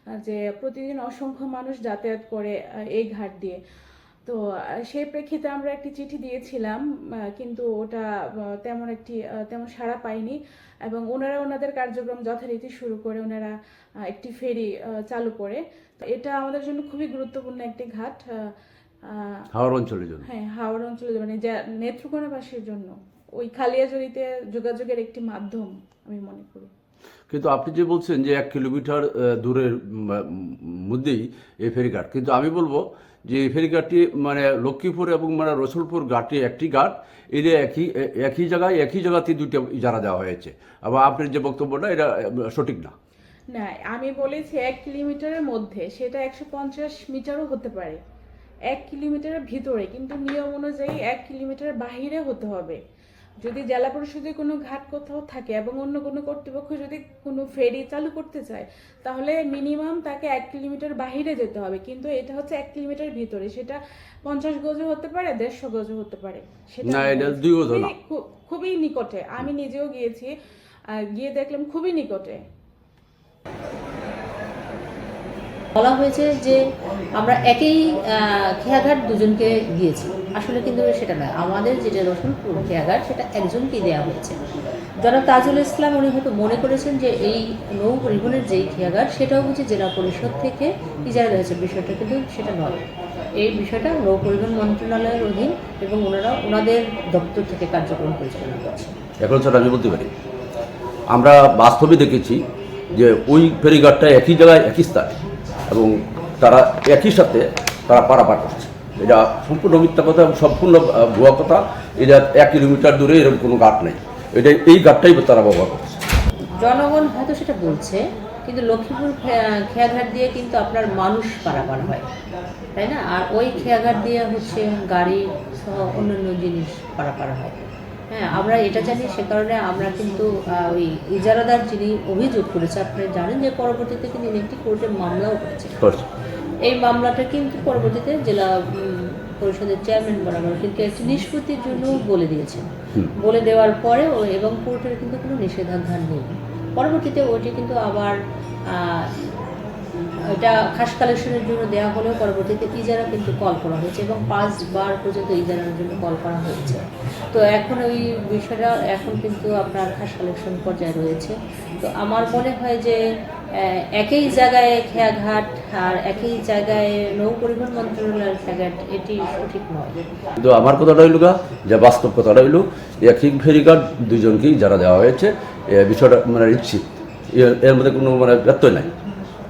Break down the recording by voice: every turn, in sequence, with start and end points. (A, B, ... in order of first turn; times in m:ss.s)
0:00.2-0:03.6 A
0:04.9-0:06.8 A
0:07.4-0:08.0 A
0:08.6-0:13.5 A
0:14.1-0:18.5 A
0:19.1-0:19.4 A
0:19.5-0:20.3 B
0:20.2-0:26.7 A
0:27.3-0:42.9 B
0:43.5-0:48.0 A
0:48.7-0:52.8 A
0:53.4-1:10.3 A
1:06.8-1:07.9 B
1:11.1-1:12.4 A
1:15.7-1:16.6 C
1:17.2-1:24.4 C
1:25.0-1:32.9 C
1:33.4-1:38.9 C
1:39.2-1:40.1 B
1:41.1-1:45.2 B
1:45.7-1:56.0 B
1:56.6-2:02.1 C
2:02.8-2:15.8 C
2:15.8-2:16.0 B
2:16.7-2:28.2 C
2:28.7-2:29.1 C
2:30.3-2:43.0 C
2:43.6-2:50.0 C
2:50.4-2:58.9 B